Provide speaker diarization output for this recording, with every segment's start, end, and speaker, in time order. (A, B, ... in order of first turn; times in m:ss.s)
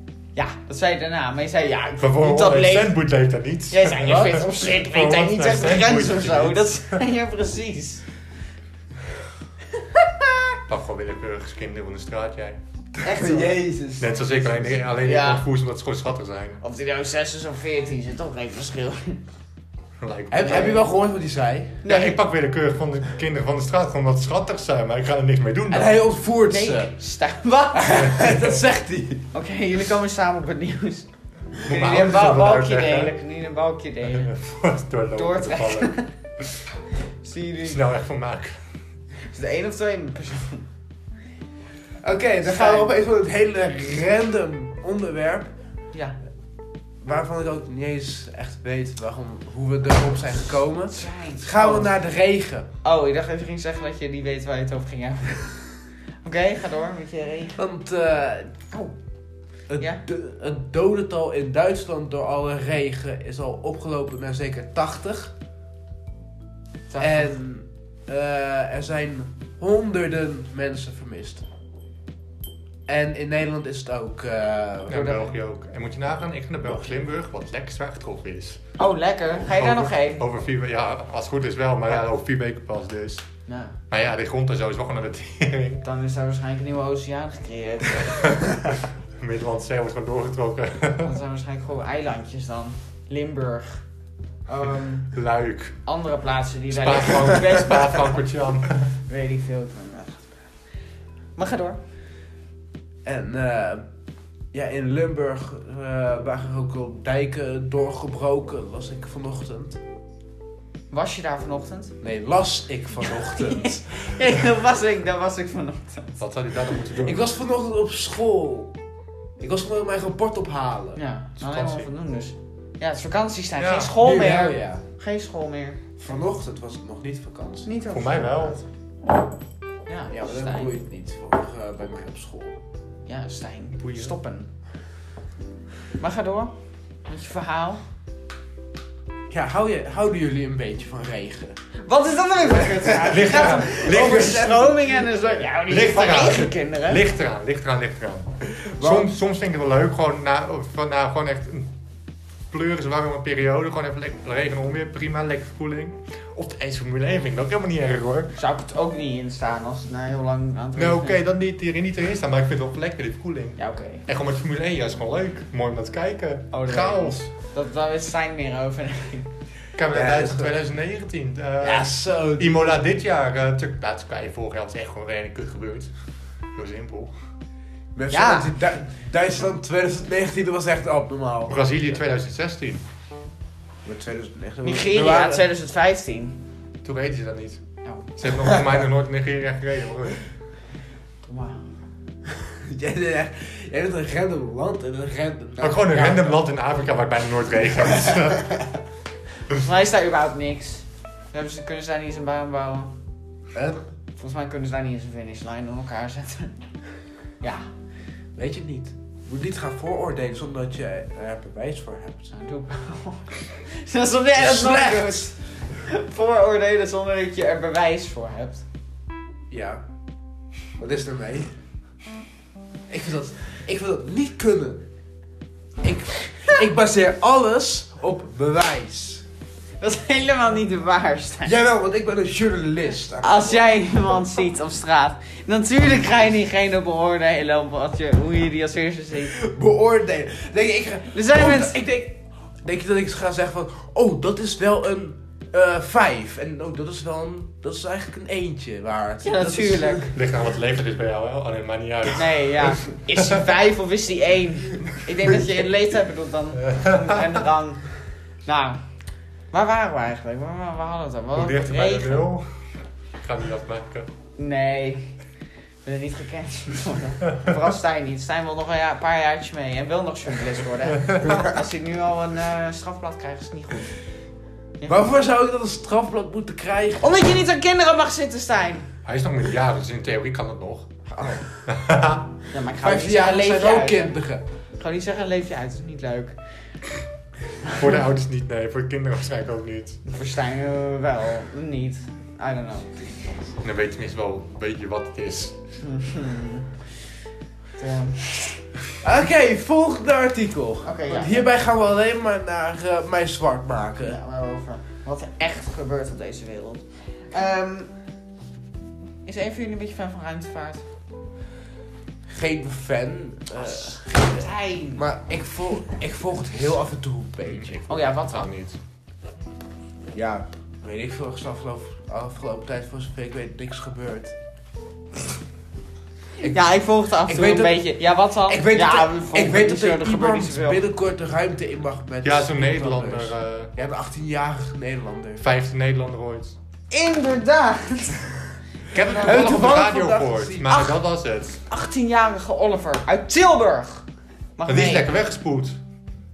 0:00.4-0:03.0 A
0:02.0-0:07.0 B
0:03.7-0:08.0 A
0:04.1-0:04.3 C
0:09.8-0:10.6 A
0:10.7-0:12.6 B
0:13.0-0:14.8 C
0:13.0-0:13.6 A
0:14.0-0:16.6 B
0:15.0-0:15.4 A
0:16.6-0:19.2 A
0:20.0-0:20.8 B
0:20.3-0:21.8 C
0:20.4-0:20.8 A
0:21.8-0:22.2 A
0:21.8-0:26.0 B
0:25.7-0:27.0 C
0:26.5-0:28.3 A
0:27.7-0:29.3 C
0:28.1-0:28.6 B
0:29.3-0:31.1 A
0:31.6-0:34.3 A
0:31.7-0:33.1 B
0:34.1-0:36.0 B
0:35.2-0:36.1 A
0:37.2-0:37.8 A
0:37.6-0:38.6 B
0:39.3-0:40.7 A
0:42.0-0:45.5 C
0:42.4-0:42.9 A
0:47.0-0:52.7 C
0:50.9-0:51.9 A
0:52.8-0:55.6 A
0:56.2-0:57.6 A
0:57.6-0:58.6 C
0:59.7-1:05.3 C
1:06.9-1:07.4 A
1:07.0-1:11.4 C
1:12.9-1:15.2 C
1:14.9-1:18.6 B
1:14.9-1:15.3 A
1:16.6-1:17.0 C
1:18.8-1:20.2 A
1:19.5-1:23.2 B
1:23.5-1:23.7 A
1:23.9-1:25.8 B
1:25.8-1:28.5 A
1:27.9-1:31.2 B
1:31.0-1:33.8 A
1:34.5-1:35.1 A
1:35.1-1:35.8 B
1:35.8-1:38.2 A
1:36.7-1:38.9 B
1:39.1-1:40.4 A
1:41.4-1:41.8 A
1:43.0-1:43.9 C
1:44.5-1:49.8 C
1:50.9-1:52.0 A
1:52.0-1:54.2 C
1:53.0-1:56.2 A
1:56.2-1:57.3 B
1:57.0-1:58.8 C
1:59.4-2:01.0 C
2:01.0-2:05.8 A
2:01.4-2:01.9 B
2:03.6-2:04.0 B
2:04.0-2:04.8 C
2:06.0-2:07.7 C
2:07.6-2:08.6 A
2:07.9-2:08.6 B
2:09.9-2:10.8 A
2:10.1-2:12.6 C
2:13.1-2:14.5 A
2:13.8-2:14.1 B
2:16.0-2:16.5 A
2:17.1-2:17.8 A
2:19.3-2:21.6 C
2:21.8-2:27.0 A
2:22.4-2:25.4 C
2:23.1-2:24.5 B
2:25.6-2:31.7 B
2:28.5-2:29.1 C
2:32.5-2:38.3 B
2:38.4-2:41.2 A
2:40.8-2:47.3 B
2:43.6-2:44.0 A
2:46.5-2:49.3 A
2:49.8-2:55.9 B
2:49.9-2:50.6 C
2:51.6-2:52.8 C
2:56.5-2:57.1 B
2:58.0-3:01.6 C
2:58.1-2:58.5 A
3:01.5-3:02.8 B
3:03.8-3:05.5 C
3:04.6-3:06.4 A
3:06.8-3:07.6 B
3:07.8-3:08.1 A
3:08.2-3:10.3 B
3:11.2-3:11.6 A
3:12.3-3:16.3 C
3:15.6-3:18.6 B
3:16.0-3:16.3 A
3:17.9-3:18.5 C
3:19.6-3:22.9 A
3:23.5-3:23.8 C
3:24.2-3:26.6 A
3:27.4-3:27.7 A
3:28.4-3:32.3 C
3:32.3-3:38.6 A
3:34.3-3:35.3 C
3:39.5-3:39.8 C
3:40.8-3:41.6 C
3:42.9-3:44.8 C
3:45.8-3:49.2 C
3:49.8-3:51.5 A
3:51.4-3:53.9 C
3:53.2-3:59.4 A
3:59.3-4:10.1 C
4:01.1-4:01.8 A
4:09.2-4:10.1 A
4:10.1-4:13.4 B
4:12.2-4:17.9 A
4:16.7-4:17.3 B
4:18.5-4:18.8 A
4:19.5-4:22.3 A
4:21.4-4:22.5 B
4:23.2-4:24.1 B
4:24.4-4:25.2 A
4:25.8-4:34.0 A
4:31.1-4:31.3 B
4:34.8-4:35.1 A
4:34.9-4:37.2 C
4:37.0-4:38.9 A
4:39.0-4:40.9 B
4:41.1-4:41.6 C
4:41.7-4:42.3 B
4:42.5-4:44.2 A
4:42.8-4:44.4 C
4:44.8-4:46.4 A
4:47.7-4:50.0 B
4:50.1-4:53.0 A
4:53.6-4:55.6 B
4:55.8-4:56.8 A
4:57.8-4:58.6 A
4:59.0-5:04.2 C
5:00.8-5:01.5 A
5:04.0-5:07.9 A
5:09.2-5:10.8 A
5:12.3-5:17.8 C
5:13.6-5:15.1 A
5:17.5-5:18.8 B
5:17.9-5:18.5 A
5:20.1-5:24.4 C
5:26.4-5:30.8 A
5:27.2-5:27.9 C
5:28.5-5:35.4 C
5:32.2-5:33.7 B
5:35.4-5:36.6 B
5:36.9-5:38.3 A
5:38.9-5:41.6 B
5:39.1-5:40.7 C
5:40.7-5:41.0 A
5:41.7-5:44.1 A
5:44.6-5:45.1 A
5:44.7-5:45.8 B